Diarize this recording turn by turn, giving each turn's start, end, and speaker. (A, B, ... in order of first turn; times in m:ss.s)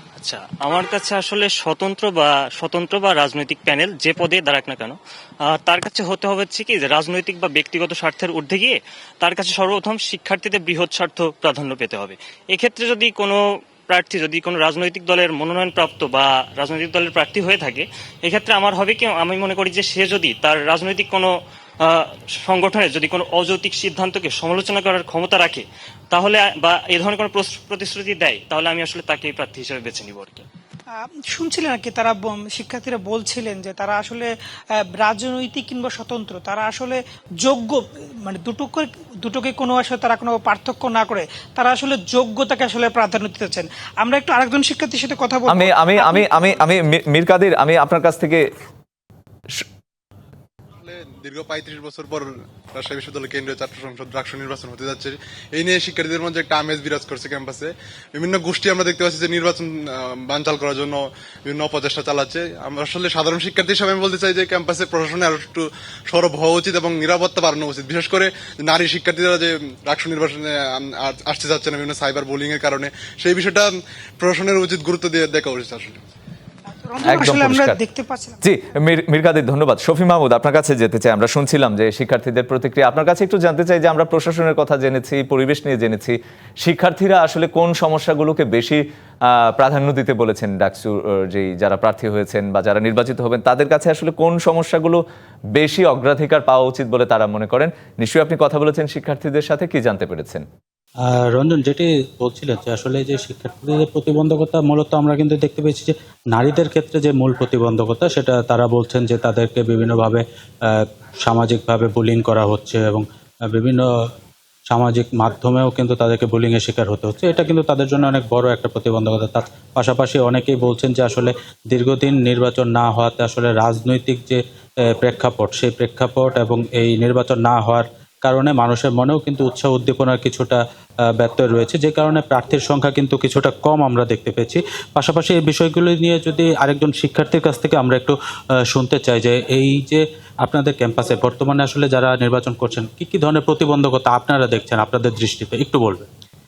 0:00.2-0:30.4 A
0:30.9-0:46.5 B
0:45.5-0:48.5 C
0:50.9-1:15.9 D
1:16.7-1:18.4 B
1:17.0-1:17.8 C
1:18.4-1:35.0 C
1:35.5-1:40.4 C
1:41.1-1:53.8 E
1:54.7-2:04.4 E
2:05.0-2:10.6 E
2:11.1-2:18.2 E
2:18.7-2:26.1 E